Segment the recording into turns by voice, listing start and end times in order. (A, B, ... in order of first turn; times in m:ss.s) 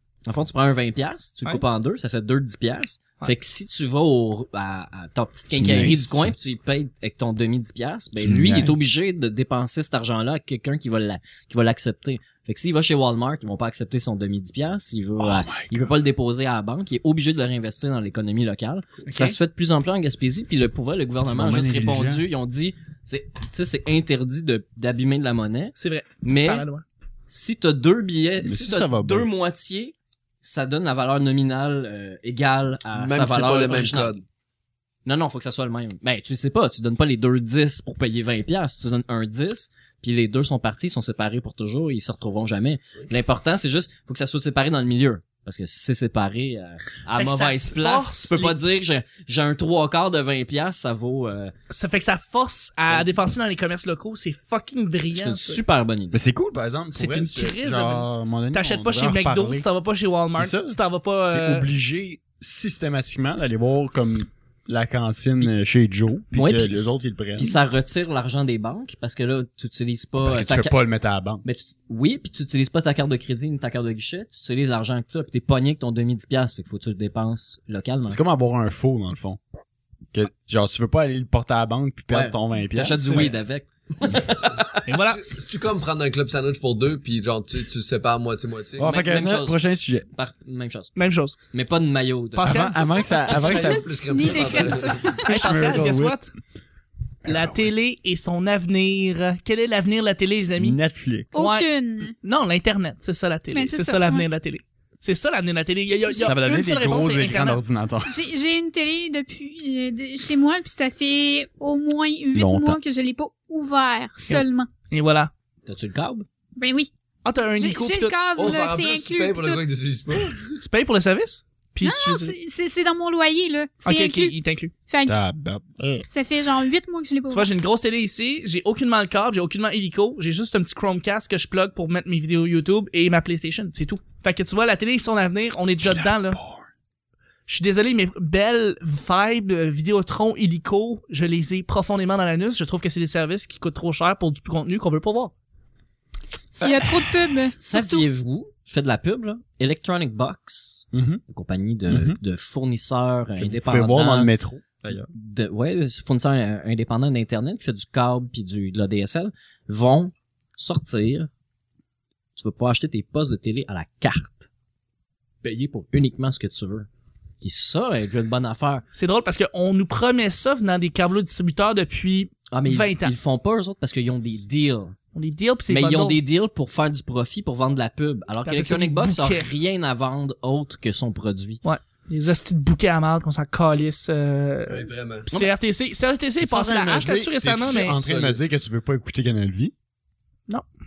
0:00.3-0:26.6 A
0:05.5-0:06.3 B
0:08.2-0:08.8 B
0:15.2-0:15.9 B
0:19.0-0:19.4 C
0:21.2-0:22.2 B
0:25.8-0:26.8 C
0:27.3-0:34.1 A
0:28.4-0:29.3 B
0:33.0-0:34.2 D
0:35.0-0:51.5 A
0:47.2-0:48.6 C
0:51.7-0:55.6 C
0:52.9-0:53.2 A
0:55.1-0:56.2 A
0:56.1-0:59.7 B
0:56.9-1:01.7 C
1:00.3-1:00.8 B
1:01.3-1:07.5 B
1:06.3-1:10.8 A
1:10.2-1:11.4 B
1:11.4-1:18.2 A
1:18.1-1:19.4 B
1:20.1-1:23.4 B
1:22.1-1:24.8 A
1:23.0-1:23.3 C
1:24.6-1:28.9 D
1:24.8-1:25.2 C
1:28.8-1:30.1 B
1:28.8-1:30.9 A
1:31.0-1:31.4 C
1:31.5-1:32.7 A
1:32.4-1:32.8 C
1:32.4-1:34.4 B
1:33.2-1:35.2 D
1:34.1-1:35.3 E
1:35.2-1:36.2 B
1:35.2-1:36.3 C
1:37.2-1:40.8 C
1:37.3-1:37.5 B
1:40.6-1:41.3 B
1:41.3-1:42.2 E
1:41.3-1:41.7 C
1:42.2-1:47.6 C
1:43.5-1:44.2 E
1:46.2-1:48.2 B
1:48.1-1:54.7 E
1:52.3-1:52.8 B
1:54.3-1:55.3 C
1:55.7-1:56.3 A
1:56.6-1:56.9 E
1:57.2-1:58.2 C
1:57.6-1:59.6 E
1:58.4-2:00.6 D
2:00.6-2:02.4 C
2:01.8-2:04.4 E
2:03.8-2:04.7 C
2:04.9-2:05.3 E
2:05.1-2:06.0 B
2:06.1-2:07.5 E
2:07.3-2:16.4 C
2:15.9-2:16.6 B
2:17.5-2:25.3 C
2:26.5-2:28.1 E
2:27.7-2:34.3 A
2:30.9-2:31.2 B
2:31.9-2:32.2 B
2:33.4-2:35.1 B
2:35.1-2:41.3 A
2:42.4-2:44.5 A
2:45.4-2:46.9 A
2:47.4-2:48.8 A
2:48.9-2:53.2 C
2:52.5-2:55.0 A
2:55.2-2:56.2 C
2:55.7-3:01.6 A
2:58.5-2:59.5 C
3:01.6-3:08.0 C
3:04.7-3:05.3 D
3:06.4-3:09.7 B
3:07.8-3:08.4 D